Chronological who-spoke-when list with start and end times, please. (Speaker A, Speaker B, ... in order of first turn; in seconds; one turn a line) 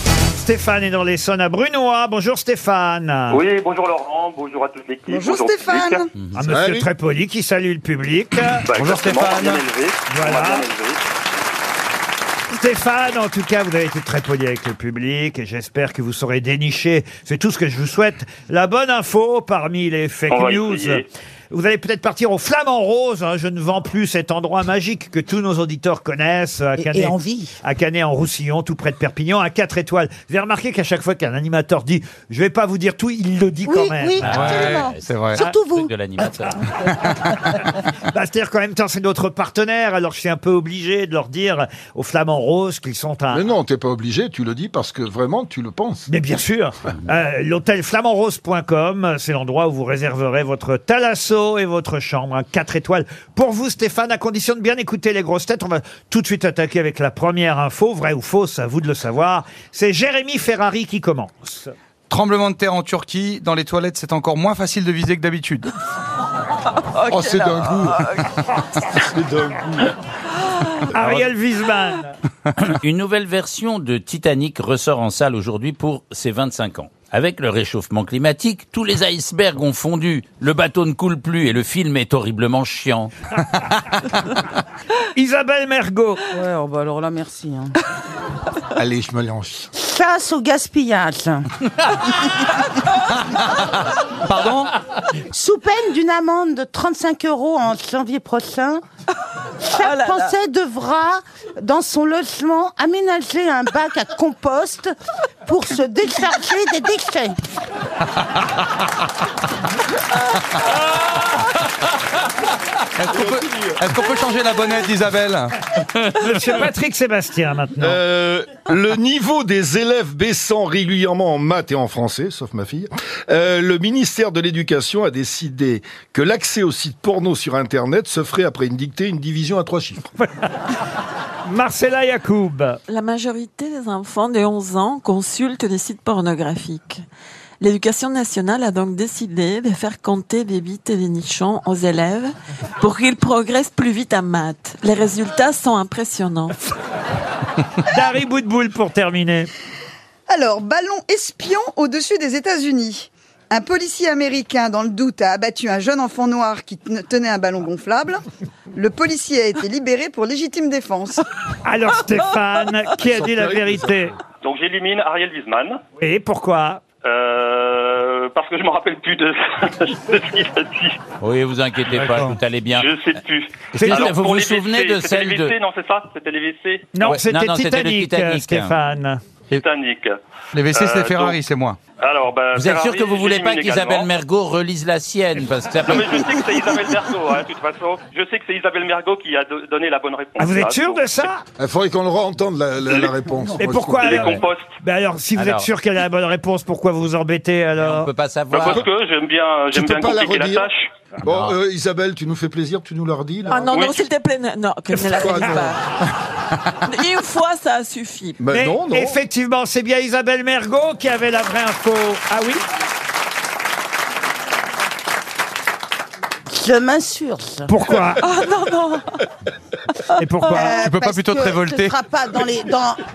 Speaker A: 0.3-3.4
Speaker B: 3.3-6.0
Speaker C: 5.1-6.0
Speaker A: 6.3-9.5
Speaker D: 6.5-6.9
Speaker B: 8.7-11.0
Speaker A: 10.1-10.7
Speaker A: 12.5-34.6
Speaker B: 20.3-21.1
Speaker E: 26.8-27.5
Speaker E: 33.7-36.3
Speaker F: 34.2-35.5
Speaker G: 34.2-36.7
Speaker A: 37.5-43.5
Speaker D: 43.3-46.1
Speaker A: 46.1-61.7
Speaker F: 62.1-65.7
Speaker H: 66.9-68.3
Speaker D: 67.1-68.2
Speaker D: 69.0-69.9
Speaker A: 70.9-72.2
Speaker D: 70.9-71.2
Speaker G: 72.6-83.1
Speaker A: 85.1-86.2
Speaker E: 86.3-87.8
Speaker F: 88.8-89.7
Speaker E: 89.7-91.5
Speaker F: 94.2-94.7
Speaker E: 95.2-98.8
Speaker E: 99.6-104.9
Speaker H: 99.8-100.3
Speaker E: 105.5-107.4
Speaker F: 113.0-115.6
Speaker D: 113.1-113.8
Speaker A: 116.0-118.0
Speaker D: 117.8-130.1
Speaker A: 131.5-132.8
Speaker H: 132.9-137.0
Speaker H: 137.6-146.6
Speaker A: 147.8-149.5
Speaker C: 150.3-158.2
Speaker C: 158.7-161.2
Speaker A: 161.6-164.2
Speaker D: 163.0-164.1
Speaker B: 164.4-165.8
Speaker A: 166.0-166.8
Speaker B: 167.0-171.0
Speaker G: 171.2-172.9
Speaker F: 171.9-172.4
Speaker B: 172.7-176.9
Speaker A: 173.7-174.2
Speaker G: 173.8-175.6
Speaker A: 176.9-179.2
Speaker G: 177.1-178.8
Speaker B: 179.5-180.2
Speaker F: 180.5-181.8
Speaker B: 180.7-181.4
Speaker B: 182.0-184.1
Speaker G: 182.6-186.5
Speaker B: 185.8-191.1
Speaker A: 190.4-191.4
Speaker D: 191.6-194.2
Speaker A: 193.6-198.1
Speaker B: 194.0-194.7
Speaker G: 194.2-194.4
Speaker G: 195.4-195.7
Speaker G: 197.8-198.9
Speaker B: 198.5-200.9
Speaker D: 199.7-200.7
Speaker D: 201.2-203.7
Speaker G: 201.3-201.6
Speaker H: 203.5-205.8
Speaker B: 203.7-204.0
Speaker D: 205.1-205.7
Speaker H: 206.8-208.4
Speaker D: 208.4-209.2
Speaker A: 208.5-212.6
Speaker E: 216.5-217.7
Speaker A: 217.7-218.2
Speaker H: 218.2-219.2
Speaker A: 220.2-220.8
Speaker E: 220.5-223.0
Speaker F: 220.8-222.0